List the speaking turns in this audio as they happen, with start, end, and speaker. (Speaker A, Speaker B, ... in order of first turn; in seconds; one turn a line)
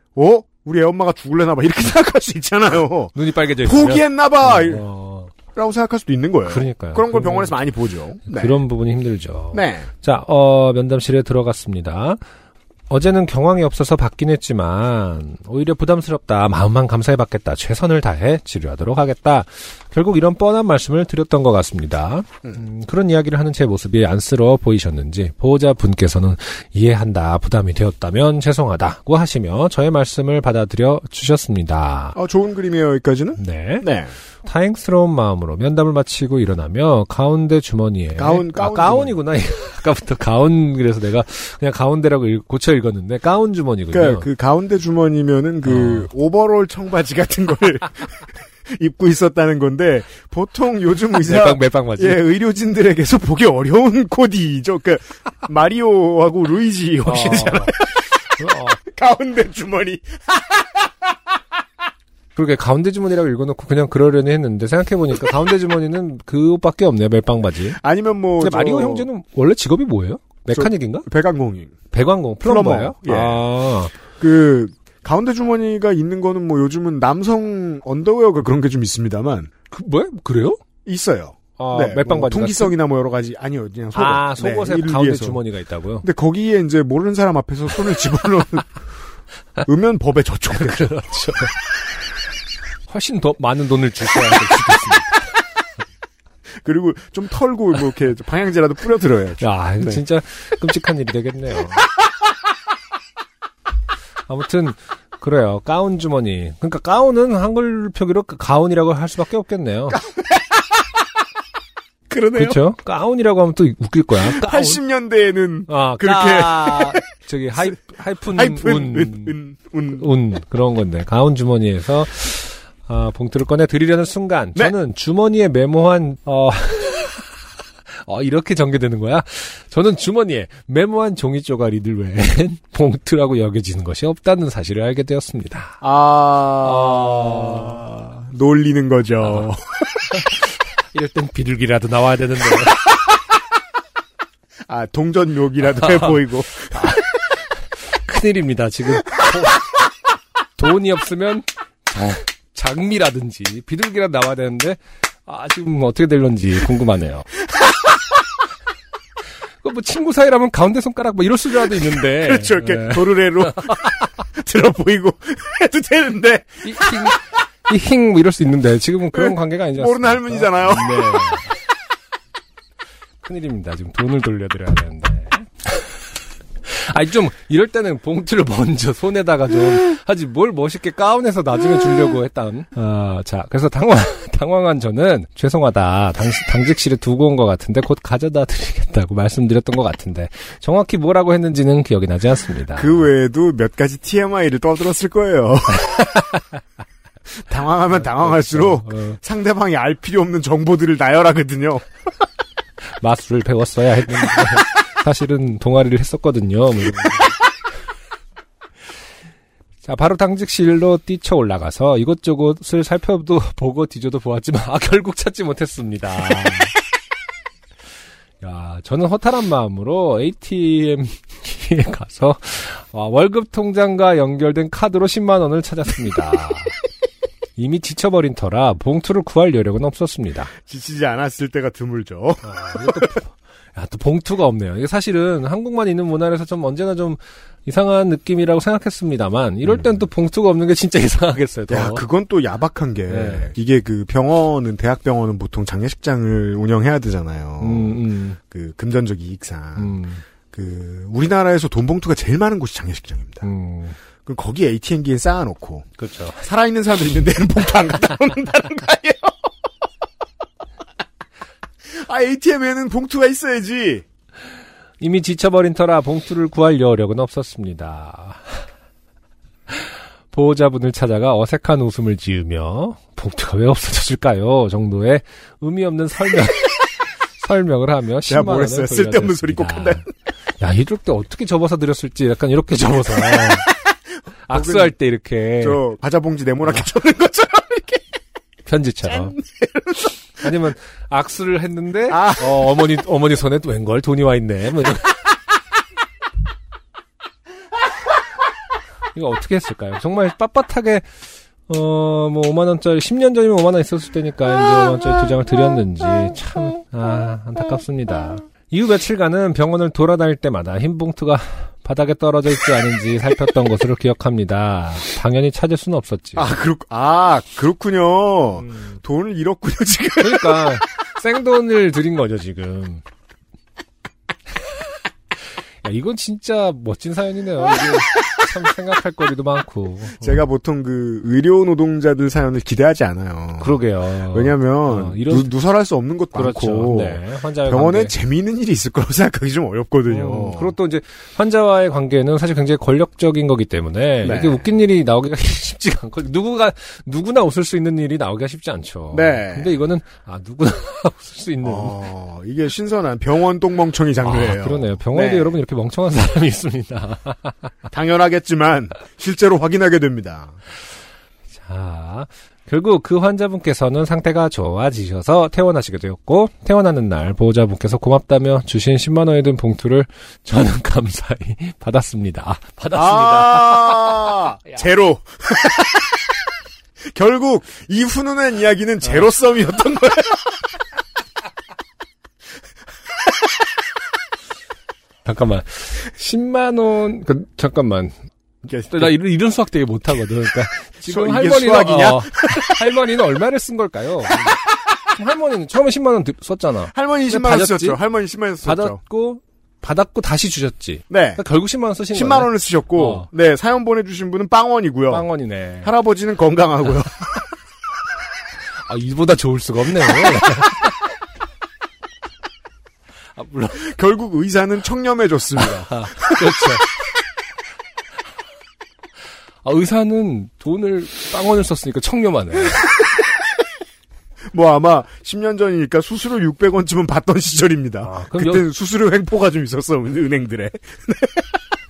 Speaker A: 0.2-4.9
Speaker B: 3.1-5.3
Speaker A: 5.5-8.6
Speaker B: 6.5-7.6
Speaker B: 8.3-12.2
Speaker A: 9.5-9.9
Speaker B: 12.9-32.2
Speaker A: 32.1-34.1
Speaker B: 33.4-33.9
Speaker B: 34.5-44.3
Speaker A: 38.1-39.2
Speaker A: 43.9-58.1
Speaker B: 45.6-46.1
Speaker B: 51.1-52.2
Speaker B: 57.0-57.7
Speaker B: 58.3-58.8
Speaker A: 58.7-60.9
Speaker B: 62.4-67.8
Speaker A: 67.7-69.1
Speaker B: 68.4-71.1
Speaker A: 70.5-71.7
Speaker B: 71.9-73.9
Speaker A: 72.4-73.4
Speaker A: 74.2-79.5
Speaker B: 79.7-80.6
Speaker A: 80.8-85.4
Speaker B: 81.6-82.7
Speaker B: 83.9-86.1
Speaker A: 86.0-88.7
Speaker A: 89.7-91.0
Speaker B: 90.5-91.6
Speaker B: 92.9-95.2
Speaker A: 96.6-100.0
Speaker B: 99.4-101.9
Speaker B: 104.3-110.0
Speaker A: 109.9-110.2
Speaker A: 112.1-112.6
Speaker B: 112.3-114.8
Speaker A: 114.2-117.0
Speaker B: 115.7-119.4
Speaker A: 117.5-120.1
Speaker B: 120.0-127.4
Speaker B: 127.9-135.8
Speaker A: 135.8-139.8
Speaker B: 136.6-137.8
Speaker B: 140.9-142.9
Speaker A: 144.7-146.9
Speaker B: 146.7-147.1
Speaker B: 147.8-149.7
Speaker B: 150.6-157.3
Speaker B: 159.6-163.5
Speaker A: 161.8-167.0
Speaker B: 166.6-171.6
Speaker A: 169.1-171.2
Speaker B: 173.2-175.7
Speaker B: 176.6-193.1
Speaker A: 192.7-196.1
Speaker B: 195.9-196.4
Speaker A: 197.5-201.9
Speaker B: 197.9-199.2
Speaker B: 203.0-207.3
Speaker B: 209.8-216.8
Speaker B: 218.4-226.8
Speaker B: 227.6-230.5
Speaker A: 230.7-233.2
Speaker B: 232.4-242.1
Speaker A: 241.7-250.0
Speaker B: 243.1-243.5
Speaker B: 247.6-248.4
Speaker B: 249.8-250.2
Speaker A: 250.5-253.5
Speaker B: 253.4-254.0
Speaker A: 254.2-259.5
Speaker B: 256.0-256.4
Speaker A: 261.9-264.0
Speaker B: 265.0-268.6
Speaker B: 269.7-280.0
Speaker A: 278.3-280.1
Speaker B: 280.6-283.7
Speaker B: 284.5-285.8
Speaker A: 284.5-285.0
Speaker A: 285.6-288.1
Speaker B: 288.7-289.4
Speaker A: 289.1-290.1
Speaker B: 290.4-295.2
Speaker A: 292.1-292.6
Speaker B: 299.1-301.1
Speaker B: 301.7-316.5
Speaker A: 316.4-320.8
Speaker B: 318.6-319.0
Speaker B: 320.2-323.0
Speaker B: 325.8-330.4
Speaker A: 330.2-340.8
Speaker B: 333.6-335.5
Speaker B: 336.4-338.1
Speaker B: 340.1-352.0
Speaker A: 344.2-344.7
Speaker A: 349.1-349.8
Speaker A: 351.6-355.6
Speaker B: 354.2-357.6
Speaker A: 357.9-360.6
Speaker B: 361.6-374.4
Speaker A: 372.9-376.2
Speaker A: 377.1-380.6
Speaker B: 385.2-388.2
Speaker A: 388.7-389.1
Speaker B: 388.8-394.6
Speaker A: 391.0-392.9
Speaker B: 395.1-398.0
Speaker A: 396.9-399.0
Speaker B: 398.6-403.3
Speaker A: 401.1-401.4
Speaker A: 402.1-405.3
Speaker B: 405.1-405.9
Speaker A: 405.8-407.4
Speaker B: 408.8-411.0
Speaker B: 413.4-413.8
Speaker A: 413.7-416.7
Speaker B: 415.6-416.9
Speaker B: 419.6-422.9
Speaker A: 424.5-431.4
Speaker B: 428.0-428.7